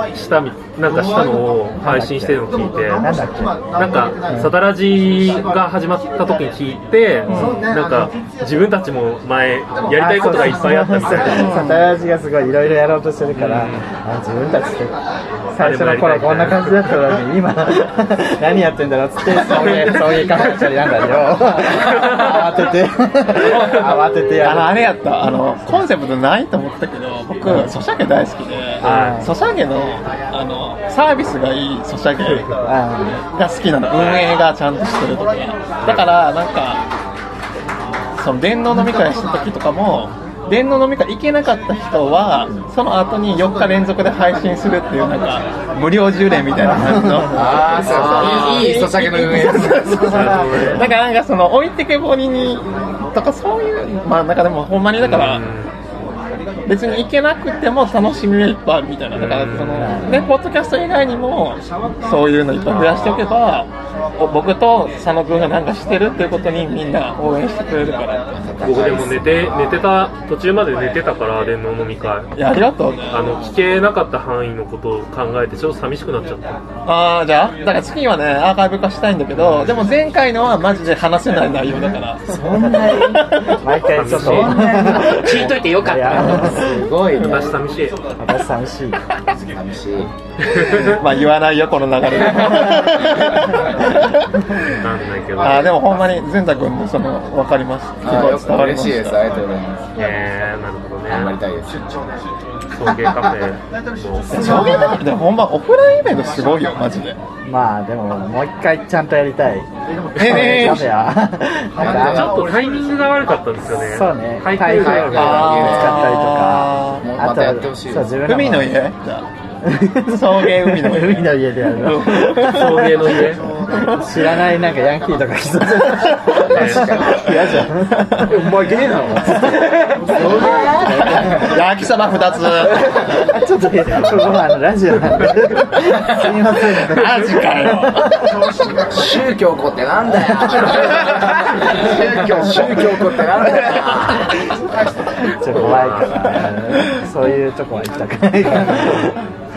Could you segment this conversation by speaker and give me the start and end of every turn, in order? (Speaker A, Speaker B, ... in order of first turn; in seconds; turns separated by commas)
Speaker A: 0.1-3.1, Speaker B: 1.8-2.4, Speaker B: 3.0-3.7, Speaker A: 3.8-11.6, Speaker C: 7.3-7.6, Speaker B: 9.9-15.0, Speaker C: 11.2-11.9, Speaker A: 13.4-13.9, Speaker B: 15.5-24.8, Speaker A: 15.6-16.9, Speaker A: 21.8-22.4, Speaker A: 23.5-24.0, Speaker C: 24.4-32.5, Speaker A: 28.8-29.2, Speaker B: 28.8-29.3, Speaker B: 32.6-33.2, Speaker C: 33.3-36.8, Speaker A: 33.9-34.3, Speaker A: 35.8-36.1, Speaker C: 38.2-55.5, Speaker B: 46.9-47.6, Speaker D: 47.3-50.1, Speaker A: 50.0-50.9, Speaker A: 55.0-55.7, Speaker C: 56.7-68.3, Speaker A: 59.1-60.1, Speaker B: 59.8-60.2, Speaker A: 62.7-63.2, Speaker D: 68.4-69.8, Speaker A: 68.6-72.3, Speaker C: 72.4-73.4, Speaker A: 73.1-76.6, Speaker C: 76.9-83.5, Speaker A: 79.3-79.9, Speaker D: 82.3-83.3, Speaker B: 83.5-86.9, Speaker A: 83.9-84.7, Speaker D: 84.1-85.5, Speaker E: 84.9-86.5, Speaker D: 86.2-87.6, Speaker A: 87.1-88.0, Speaker C: 87.2-87.4, Speaker B: 88.2-89.0, Speaker D: 89.5-90.1, Speaker A: 90.5-91.0, Speaker C: 90.8-94.6, Speaker A: 94.7-95.8, Speaker C: 95.4-99.2, Speaker D: 98.0-99.9, Speaker A: 100.0-101.4, Speaker D: 101.1-101.9, Speaker A: 102.7-104.5, Speaker C: 104.3-107.2, Speaker B: 107.5-112.4, Speaker C: 110.2-110.9, Speaker D: 111.8-112.5, Speaker A: 111.8-115.6, Speaker B: 113.9-118.8, Speaker D: 114.6-116.1, Speaker C: 115.1-117.1, Speaker D: 117.0-118.2, Speaker C: 118.2-119.3, Speaker B: 119.6-122.9, Speaker C: 120.1-123.1, Speaker A: 122.3-123.5, Speaker C: 123.7-124.3, Speaker B: 123.9-128.3, Speaker D: 126.3-127.6, Speaker A: 126.5-127.0, Speaker E: 128.2-130.1, Speaker B: 129.2-131.5, Speaker D: 130.2-130.9, Speaker C: 130.8-132.9, Speaker B: 132.9-138.4, Speaker A: 134.0-134.3, Speaker C: 136.8-138.3, Speaker D: 138.9-144.4, Speaker B: 145.2-149.1, Speaker A: 145.5-146.3, Speaker A: 148.6-149.0